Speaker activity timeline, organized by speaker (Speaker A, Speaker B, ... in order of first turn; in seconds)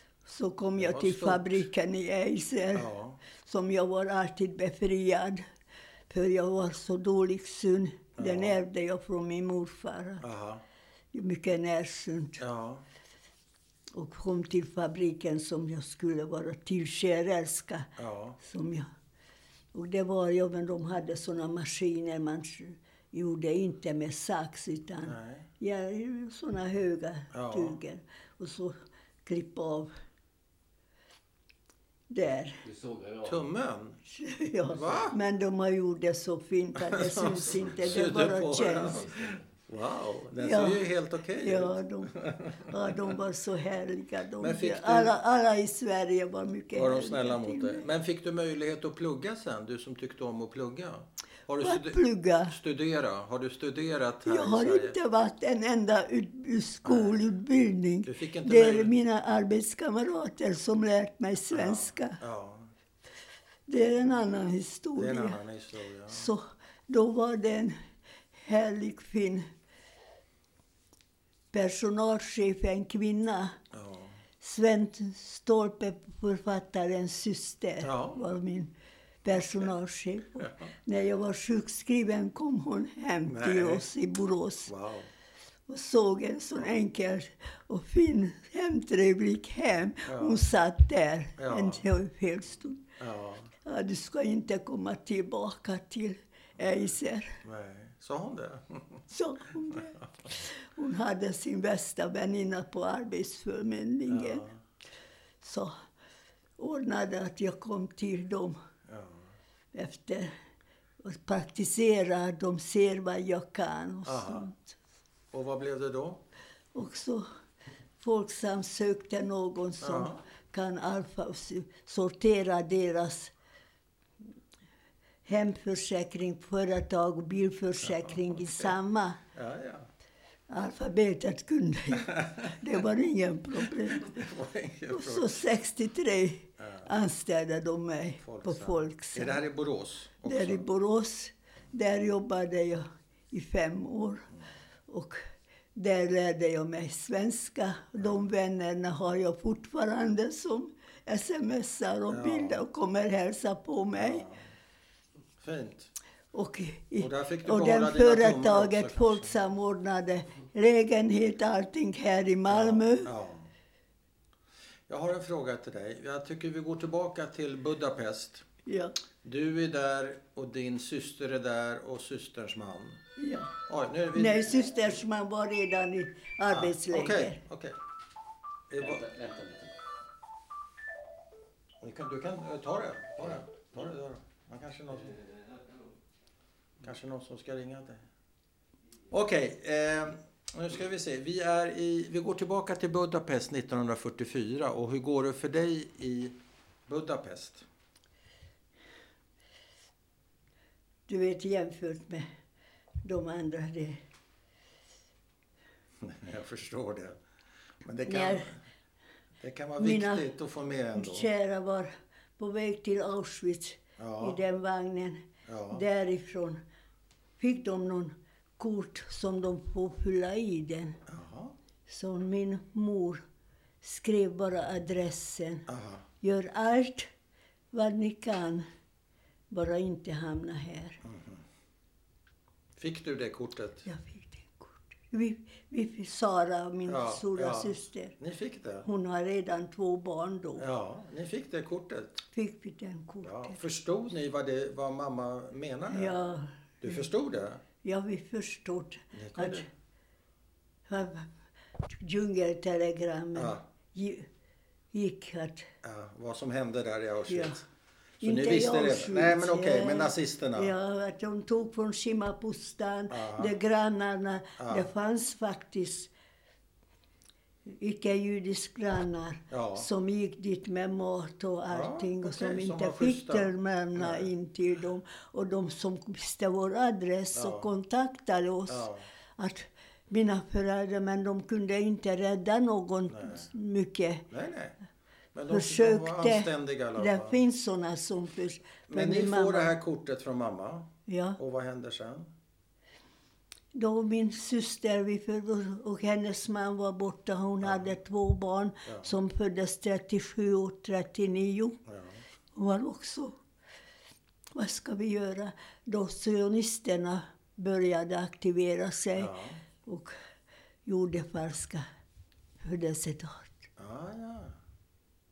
Speaker A: 0.2-5.4, 6.1-10.2, 11.1-12.4, 13.9-18.9, 19.7-29.9, 32.1-32.6, 34.1-39.0, 40.4-47.8, 51.6-52.5, 54.2-62.2, 63.7-65.4, 66.1-67.7, 68.4-69.5, 71.5-73.6, 74.4-78.7, 79.2-84.7, 85.7-92.8, 93.6-97.4, 99.1-104.4, 105.4-105.7, 106.6-108.6, 109.7-110.3, 111.0-114.7, 116.7-117.2, 118.0-123.3, 125.2-129.2, 130.5-134.2, 134.9-139.4, 140.2-144.3, 144.9-145.2, 145.7-154.2, 156.3-163.1, 168.7-168.9, 173.2-173.5, 174.1-177.4, 201.1-202.3, 203.0-204.0, 208.1-208.5, 209.8-210.3, 210.9-216.6, 217.4-221.0, 221.9-223.2, 223.8-225.7, 226.2-227.1, 227.7-228.7, 229.5-231.0, 233.8-238.1, 238.8-240.7, 242.3-243.6, 245.9-247.0, 247.8-249.7, 250.9-251.3, 251.9-254.3, 254.9-255.7, 257.3-257.6, 258.2-266.1, 267.7-284.2, 285.5-289.8, 291.1-291.4, 293.7-301.8, 302.5-303.4, 304.5-309.3, 309.8-310.1, 310.9-311.8, 312.6-313.6
Speaker B: 0.8-1.7, 2.7-3.2, 8.2-8.6, 10.2-10.6, 12.4-12.8, 18.0-18.4, 25.0-25.5, 27.3-27.8, 33.2-34.0, 34.7-35.1, 36.8-43.2, 44.4-45.2, 46.7-55.0, 56.8-57.3, 58.0-58.9, 61.5-62.7, 65.0-66.3, 73.7-74.2, 77.8-78.2, 79.3-79.7, 83.2-83.9, 84.7-85.1, 90.1-90.4, 91.4-91.8, 93.0-93.5, 96.6-96.9, 97.4-99.0, 99.7-100.0, 104.1-104.6, 108.9-109.3, 114.0-114.5, 115.3-116.2, 119.8-120.2, 127.8-128.8, 129.3-129.9, 132.0-132.7, 133.6-135.5, 136.6-136.9, 138.2-140.7, 152.1-152.6, 153.9-154.5, 155.4-155.9, 157.0-159.4, 162.5-163.5, 164.9-168.4, 169.2-173.0, 173.7-174.9, 176.5-177.8, 178.7-179.1, 181.8-185.2, 186.8-188.0, 189.1-196.3, 196.9-197.7, 206.0-207.2, 207.8-208.6, 209.4-211.3, 214.0-214.4, 215.4-215.8, 221.1-221.5, 225.7-226.0, 231.0-231.4, 232.8-233.9, 236.9-238.9, 240.6-242.2, 243.2-246.2, 246.8-247.6, 249.1-249.7, 253.3-253.6, 255.8-257.6, 258.2-260.7, 263.1-263.6, 264.6-264.9, 269.5-269.9, 271.7-274.3, 277.3-277.7, 278.7-279.0, 283.1-283.5, 284.3-284.8, 285.3-287.4, 288.9-292.3, 297.6-297.9, 298.8-299.1, 301.9-302.2, 309.1-309.6, 313.8-314.6
Speaker C: 32.6-33.5, 38.7-39.5, 178.8-179.7, 184.9-185.9